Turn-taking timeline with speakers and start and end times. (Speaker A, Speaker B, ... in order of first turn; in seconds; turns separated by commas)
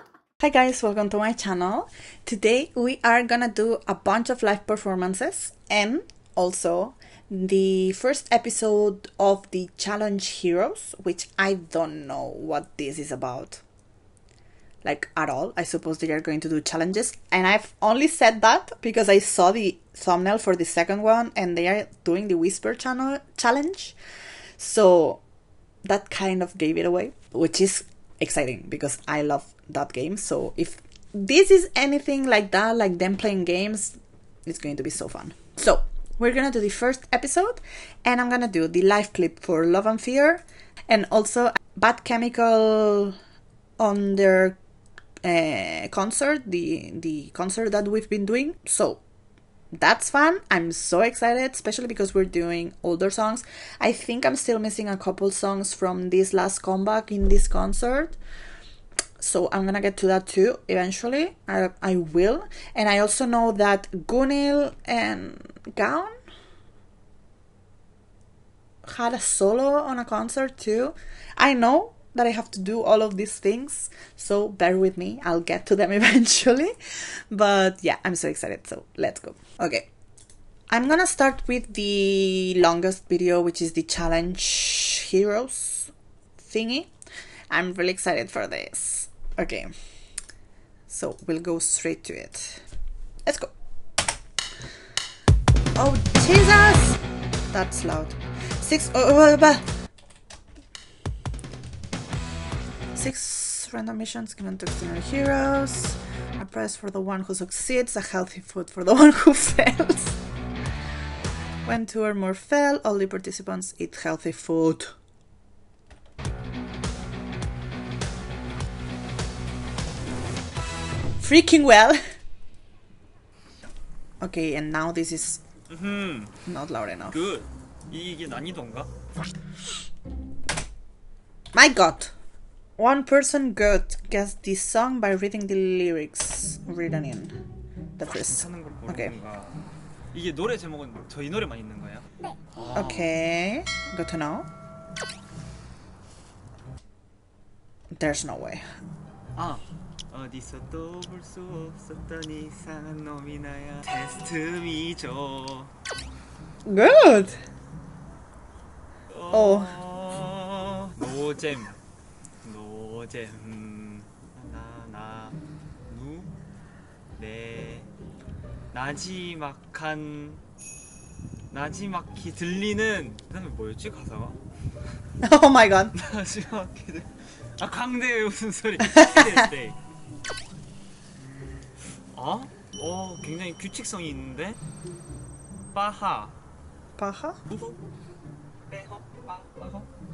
Speaker A: 0.4-13.6, Speaker A: 14.8-24.0, Speaker A: 24.6-25.2, Speaker A: 25.8-43.1, Speaker A: 43.8-44.6, Speaker A: 45.2-49.0, Speaker A: 49.7-58.2, Speaker A: 59.2-66.2, Speaker A: 68.8-79.9, Speaker A: 80.7-86.9, Speaker A: 87.5-89.7, Speaker A: 90.9-92.6, Speaker A: 93.2-93.5, Speaker A: 95.7-97.0, Speaker A: 97.5-99.6, Speaker A: 102.9-110.2, Speaker A: 111.6-114.9, Speaker A: 121.2-122.0, Speaker A: 124.2-125.4, Speaker B: 125.7-126.3, Speaker A: 126.5-127.2, Speaker B: 127.1-128.9, Speaker A: 131.5-132.1, Speaker A: 132.8-137.3, Speaker A: 138.0-139.1, Speaker B: 138.1-139.5, Speaker B: 140.1-143.1, Speaker A: 142.7-144.5, Speaker A: 147.9-148.6, Speaker B: 149.3-155.7, Speaker A: 156.6-157.4, Speaker B: 159.1-161.8, Speaker A: 159.3-159.8, Speaker B: 162.4-165.4, Speaker B: 165.9-166.3, Speaker B: 167.2-167.9, Speaker B: 168.7-170.4, Speaker B: 171.5-174.4, Speaker A: 175.2-176.0, Speaker B: 175.9-179.8, Speaker B: 182.1-184.6, Speaker B: 185.7-186.3, Speaker A: 186.9-187.4, Speaker B: 187.5-187.8, Speaker B: 188.7-189.8